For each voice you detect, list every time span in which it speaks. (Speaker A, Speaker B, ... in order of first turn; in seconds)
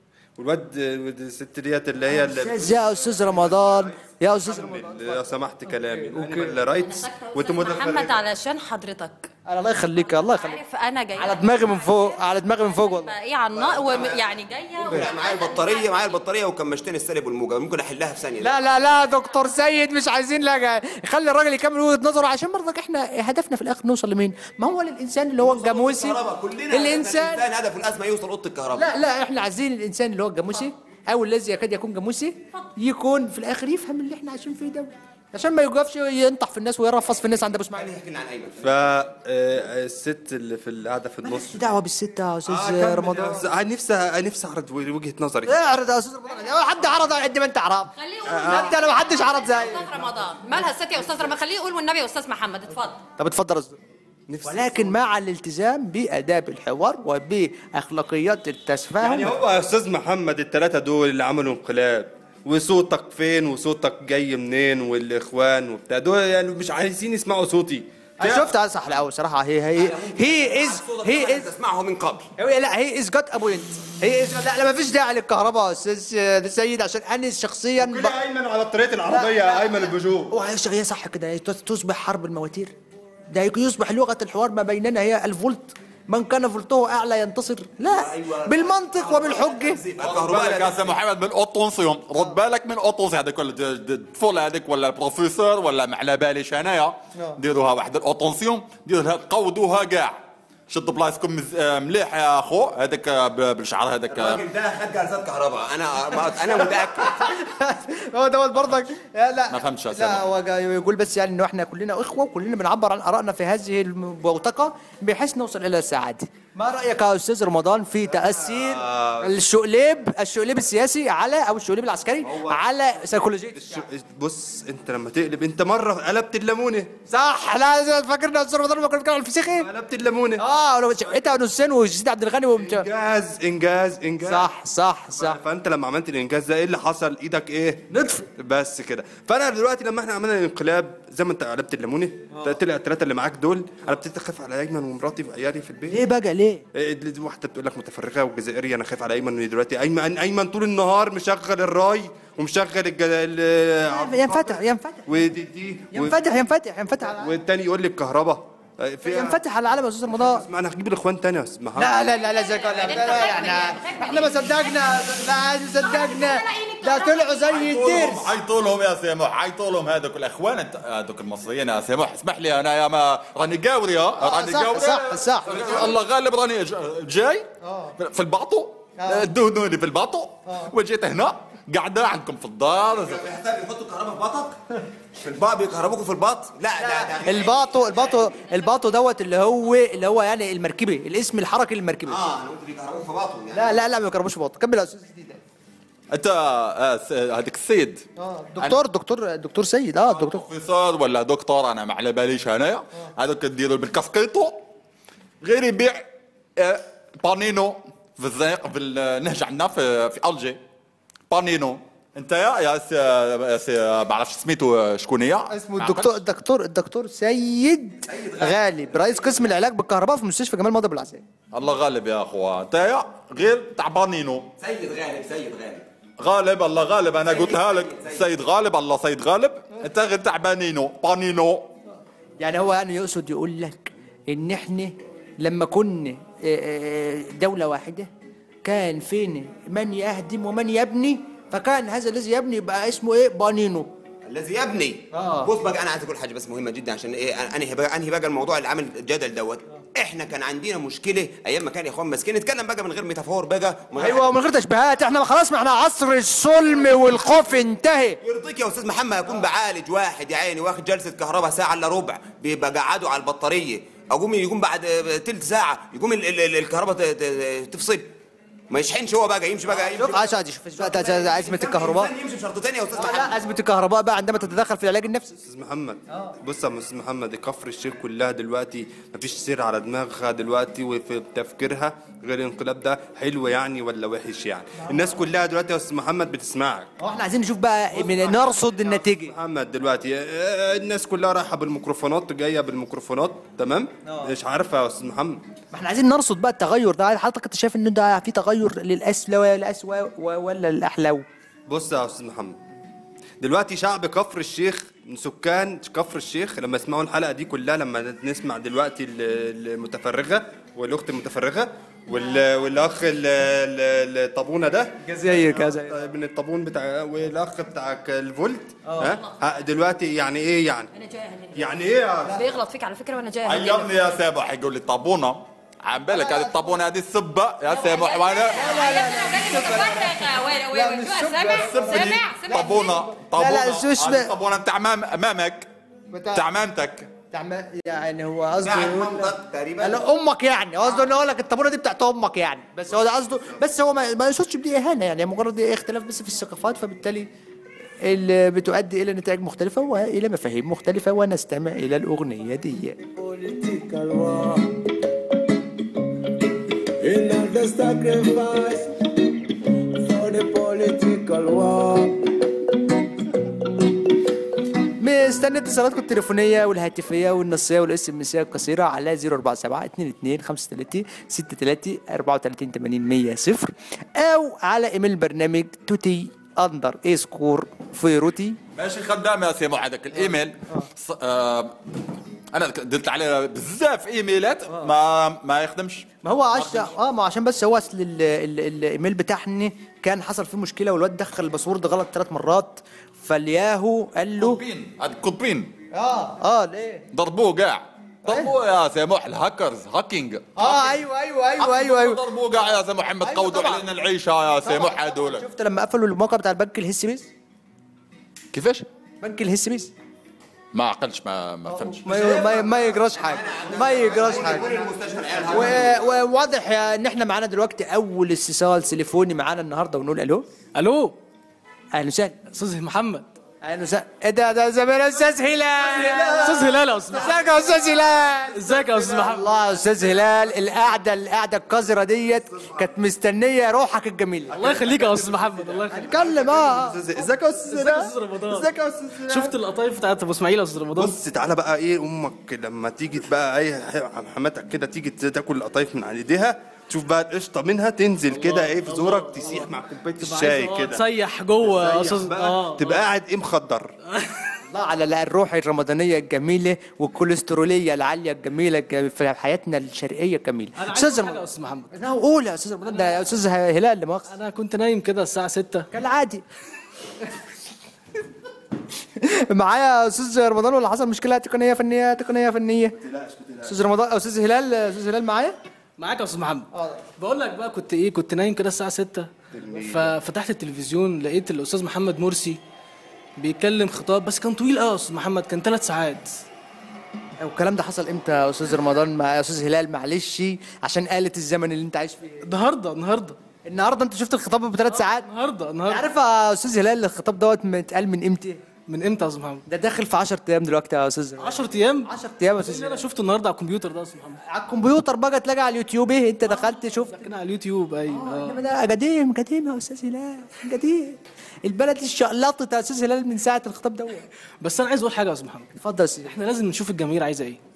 Speaker A: 0.4-8.2, 13.6-14.2, 38.6-41.6, 42.5-45.5, 48.3-48.8, 54.3-55.0, 59.0-68.5, 77.8-80.3, 90.0-90.6, 118.1-119.2, 122.2-126.9, 129.4-130.4, 132.5-134.5, 135.1-146.0, 146.7-156.2, 157.0-159.4, 160.1-161.9, 275.4-286.9, 287.9-295.4, 301.7-302.6, 303.4-320.9, 321.5-322.4, 343.0-343.6, 412.1-413.0, 413.5-416.1, 425.9-426.7, 432.6-432.9, 434.5-439.5, 440.9-451.0, 451.6-453.9, 473.0-473.7, 479.6-480.1
Speaker B: 2.1-6.6, 9.5-10.6, 11.2-13.1, 18.4-26.2, 26.7-27.4, 28.8-37.9, 41.2-43.4, 45.5-49.9, 53.2-53.8, 54.4-59.4, 68.2-71.5, 72.4-78.2, 79.1-82.7, 83.3-89.8, 106.9-123.8, 127.1-129.7, 130.4-132.9, 134.2-135.4, 137.9-138.3, 145.9-146.6, 153.9-155.1, 155.9-157.3, 159.0-160.4, 161.8-168.3, 174.2-175.7, 177.6-177.9, 179.0-179.2, 180.5-180.7, 186.8-192.2, 193.5-195.4, 198.2-200.4, 215.5-221.2, 232.4-238.1, 238.6-243.9, 245.1-245.5, 253.9-258.2, 269.7-272.1, 272.9-275.4, 276.1-276.4, 284.8-285.1, 287.0-289.3, 294.1-294.3, 295.7-301.2, 315.0-316.0, 318.9-319.2, 326.1-326.8, 328.5-334.3, 336.1-336.4, 337.3-347.3, 348.0-353.0, 365.0-378.6, 380.3-380.9, 386.2-394.6, 395.9-397.1, 398.2-398.5, 400.6-402.2, 403.2-403.8, 404.6-407.3, 409.2-409.9, 411.7-414.6, 415.5-420.5, 421.9-422.4, 423.6-434.6, 435.9-437.0, 454.7-464.3, 465.9-466.4, 469.2-473.0, 473.6-475.6, 476.7-477.0, 487.4-492.4, 493.6-495.3, 495.9-498.6, 499.7-503.0, 504.4-507.3, 508.1-514.3, 515.8-516.3
Speaker C: 6.8-9.3, 10.0-16.0, 48.0-53.0, 162.0-165.2, 165.8-167.4, 320.9-323.9, 327.7-333.0
Speaker D: 14.8-18.6, 25.4-28.9, 37.7-38.7, 69.8-72.3, 87.8-91.0, 104.1-107.2, 182.9-188.3, 192.1-193.8, 218.1-219.5, 224.6-225.9, 227.2-228.3, 244.2-254.3, 258.2-268.1, 268.7-273.4, 338.6-340.0, 413.0-416.1
Speaker E: 90.2-104.4, 109.5-110.2, 167.5-183.3, 196.1-198.1, 200.1-204.7, 205.4-210.6, 211.3-216.1, 221.5-224.5, 226.2-231.7, 323.4-328.7, 331.5-335.7, 336.3-337.1, 378.7-381.8, 382.5-386.9, 394.4-395.7, 397.1-401.0, 401.6-405.4, 408.5-408.9, 410.7-412.3
Speaker F: 353.1-354.8, 357.0-363.5
Speaker G: 420.7-421.2, 422.4-423.3, 426.2-427.4, 428.5-429.5, 434.5-436.1, 437.6-441.2, 448.3-453.1, 454.1-454.5, 460.8-461.9, 462.9-463.2, 464.3-465.9, 476.0-482.6, 483.4-486.4, 492.4-493.4, 494.9-496.1, 498.9-499.6, 501.4-504.4, 506.4-508.6, 514.6-515.7, 516.2-517.6